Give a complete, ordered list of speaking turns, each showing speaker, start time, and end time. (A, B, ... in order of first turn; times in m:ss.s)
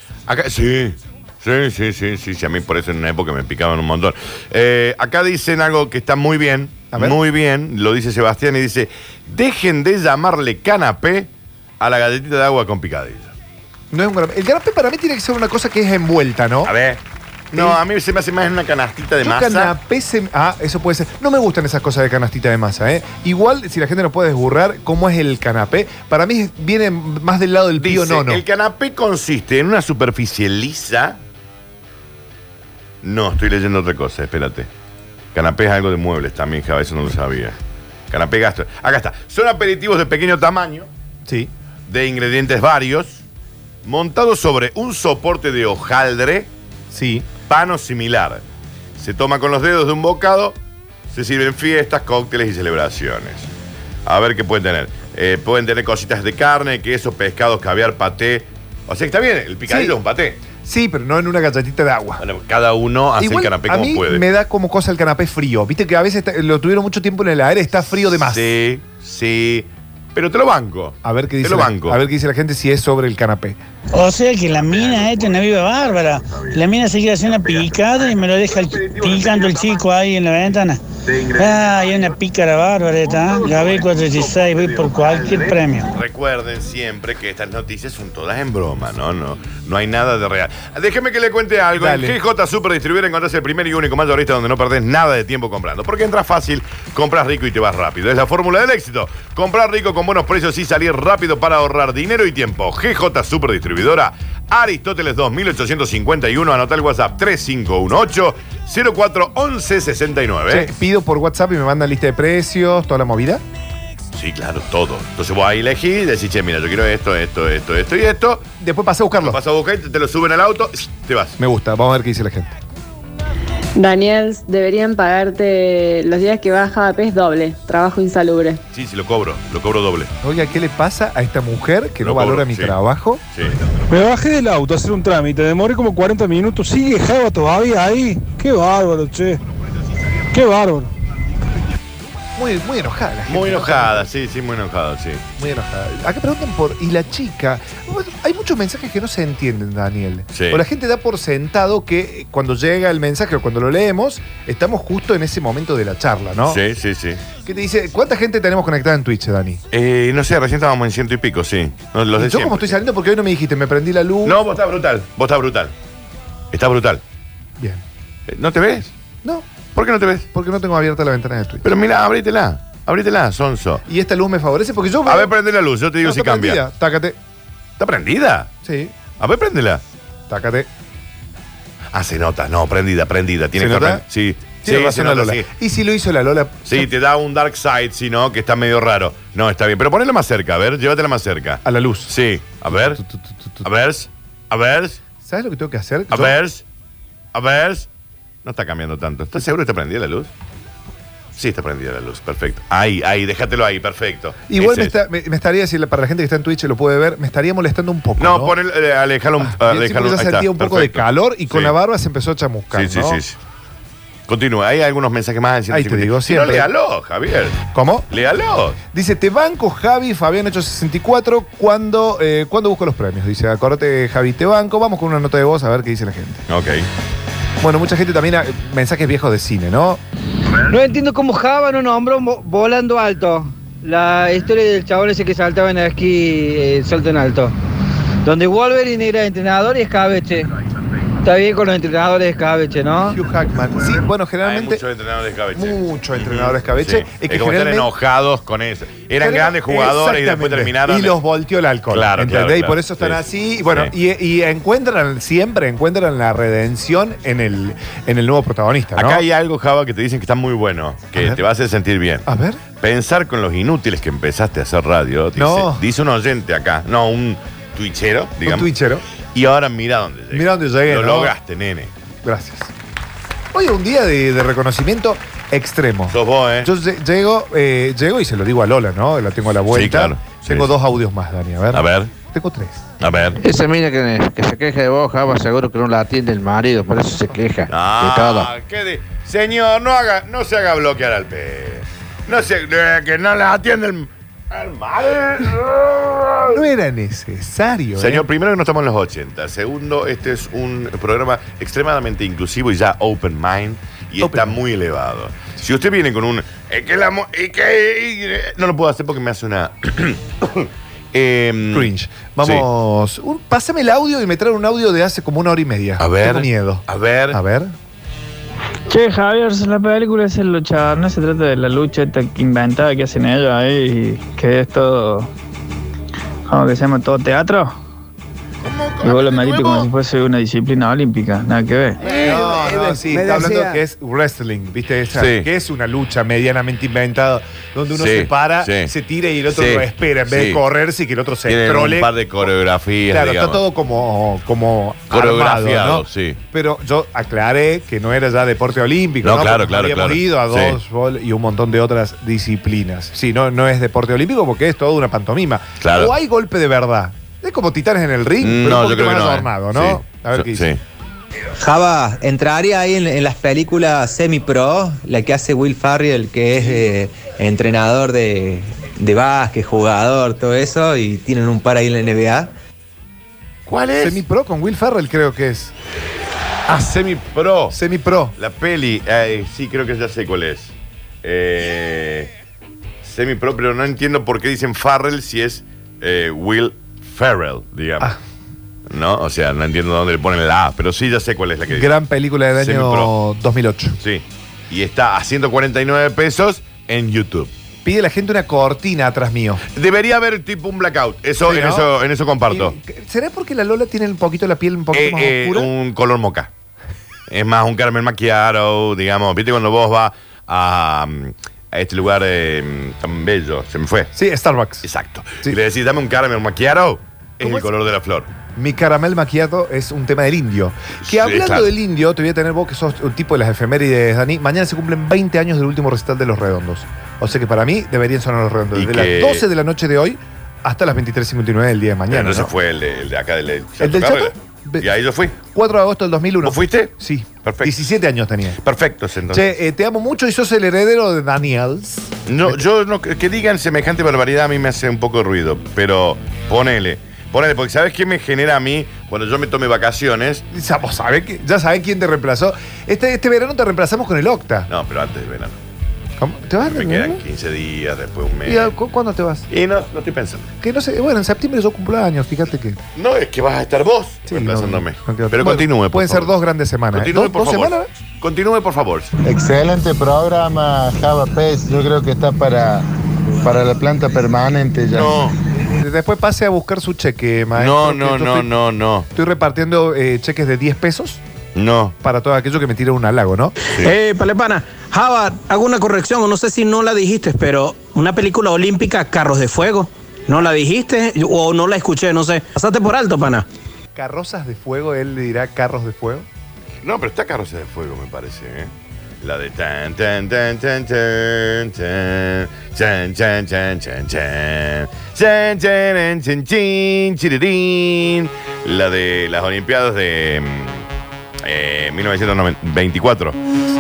0:00.3-0:13.3 A
0:06.9-0:07.2 B
0:13.9-0:16.7 B
0:16.6-0:17.0 A
0:17.5-0:19.8 A
0:17.5-0:17.8 B
0:19.2-0:28.4 B
0:27.8-0:31.2 A
0:33.0-0:34.7 A
0:35.3-0:37.6 A
0:38.1-0:40.9 A
0:41.9-0:43.2 A
0:43.8-0:46.5 A
0:46.9-0:47.3 B
0:47.5-0:48.4 A
0:49.0-0:50.6 A
0:51.1-0:53.5 A
0:54.1-1:00.4 A
0:59.7-1:02.2 B
1:02.2-1:04.2 A
1:03.2-1:08.5 B
1:08.2-1:12.0 A
1:11.0-1:13.6 B
1:13.9-1:25.9 C
1:14.7-1:15.5 A
1:16.2-1:16.5 A
1:25.9-1:50.7 A
1:31.8-1:32.2 B
1:50.5-1:53.4 B
1:54.1-1:58.5 A
1:58.6-1:59.4 B
1:59.2-2:01.4 A
2:01.4-2:02.6 B
2:03.8-2:08.6 D
2:08.7-2:10.1 A
2:10.2-2:13.2 B
2:12.0-2:12.8 A
2:13.9-2:19.4 E
2:20.3-2:20.9 E
2:22.4-2:24.1 B
2:23.3-2:25.2 A
2:25.4-2:36.6 B
2:30.3-2:30.6 A
2:36.5-2:37.2 A
2:37.4-2:39.6 B
2:39.7-2:42.8 A
2:42.2-2:44.4 B
2:44.2-2:45.7 A
2:46.5-2:47.0 A
2:47.6-2:47.8 B
2:48.3-2:48.9 A
2:49.8-2:50.3 A
2:50.3-2:51.7 B
2:51.6-2:53.8 A
2:53.9-2:55.3 B
2:55.1-2:56.6 A
2:56.0-2:57.2 B
2:57.8-2:58.5 A
2:58.6-2:58.9 B
2:59.2-2:59.8 A
3:00.3-3:00.7 B
3:01.9-3:05.5 A
3:03.6-3:04.0 B
3:04.6-3:06.9 B
3:06.7-3:13.0 A
3:11.6-3:12.1 B
3:12.7-3:13.7 B
3:13.6-3:15.0 A
3:15.2-3:16.4 B
3:16.1-3:16.6 A
3:17.3-3:17.9 A
3:18.4-3:20.3 A
3:21.4-3:25.0 A
3:24.5-3:28.6 B
3:28.2-3:31.7 A
3:29.4-3:33.2 B
3:32.7-3:33.4 A
3:34.3-3:38.8 A
3:35.7-3:36.7 B
3:37.7-3:38.1 B
3:38.9-3:46.5 B
3:46.5-3:46.9 A
3:47.6-3:50.0 B
3:50.7-3:57.5 F
3:58.2-4:00.5 F
4:01.2-4:03.2 F
4:03.1-4:04.8 B
4:04.4-4:11.2 A
4:05.6-4:07.9 B
4:09.2-4:19.2 B
4:11.9-4:13.9 A
4:19.0-4:22.2 A
4:21.2-4:21.4 B
4:22.3-4:22.6 B
4:22.8-4:28.7 A
4:25.4-4:25.8 B
4:28.4-4:29.0 B
4:29.3-4:31.9 A
4:30.3-4:31.3 B
4:32.2-4:32.7 B
4:33.5-4:42.9 B
4:36.1-4:36.7 A
4:39.7-4:40.7 A
4:41.7-4:42.1 A
4:43.0-4:43.4 A
4:43.4-4:48.5 G
4:47.7-4:56.6 A
4:56.5-4:58.3 B
4:58.0-5:11.9 A
5:04.2-5:04.6 B
5:11.7-5:17.7 B
5:16.0-5:17.4 A
5:18.9-5:25.3 H
5:26.5-5:27.8 H
5:28.6-5:29.9 A
5:29.0-5:32.0 H
5:32.0-5:33.4 A
5:32.1-5:42.1 B
5:35.1-5:35.5 A
5:37.9-5:38.9 A
5:39.5-5:40.6 A
5:41.5-5:43.6 A
5:43.1-6:00.7 B
5:45.1-5:46.4 A
5:49.2-5:50.8 A
5:55.8-5:56.1 A
5:58.4-6:00.8 A
6:01.6-6:12.5 I
6:13.7-6:14.2 A
6:14.0-6:15.7 B
6:16.7-6:17.8 A
6:17.7-6:18.3 B
6:18.4-6:22.3 A
6:23.0-6:28.1 A
6:28.9-6:31.9 A
6:31.7-6:34.0 B
6:32.6-6:33.1 A
6:34.0-6:37.5 A
6:37.8-6:39.6 B
6:39.7-6:42.7 A
6:41.4-6:41.9 B
6:42.5-6:45.7 B
6:44.9-6:46.5 A
6:47.3-6:54.1 A
6:54.1-6:54.9 B
6:54.8-6:58.3 A
6:57.4-6:57.7 B
6:58.6-7:12.5 B
7:01.0-7:01.7 A
7:08.8-7:09.4 A
7:12.1-7:15.4 A
7:13.8-7:14.9 B
7:15.4-7:18.6 B
7:16.4-7:17.8 A
7:18.6-7:19.5 A
7:19.3-7:22.6 B
7:22.3-7:30.5 A
7:30.5-7:34.7 B
7:34.7-7:35.6 A
7:36.2-7:37.2 B
7:36.6-7:38.7 A
7:38.4-7:39.5 B
7:39.5-7:40.5 A
7:40.6-7:42.8 B
7:43.0-7:46.3 A
7:44.3-7:47.9 B
7:46.9-7:49.1 A
7:49.2-7:52.8 J
7:53.4-7:55.1 J
7:54.9-7:55.4 A
7:55.8-7:58.5 B
7:57.6-7:59.1 A
7:59.1-8:01.2 B
8:01.6-8:02.0 A
8:02.0-8:03.5 B
8:03.8-8:13.5 K
8:14.0-8:16.3 B
8:16.8-8:30.9 A
8:31.4-8:33.4 A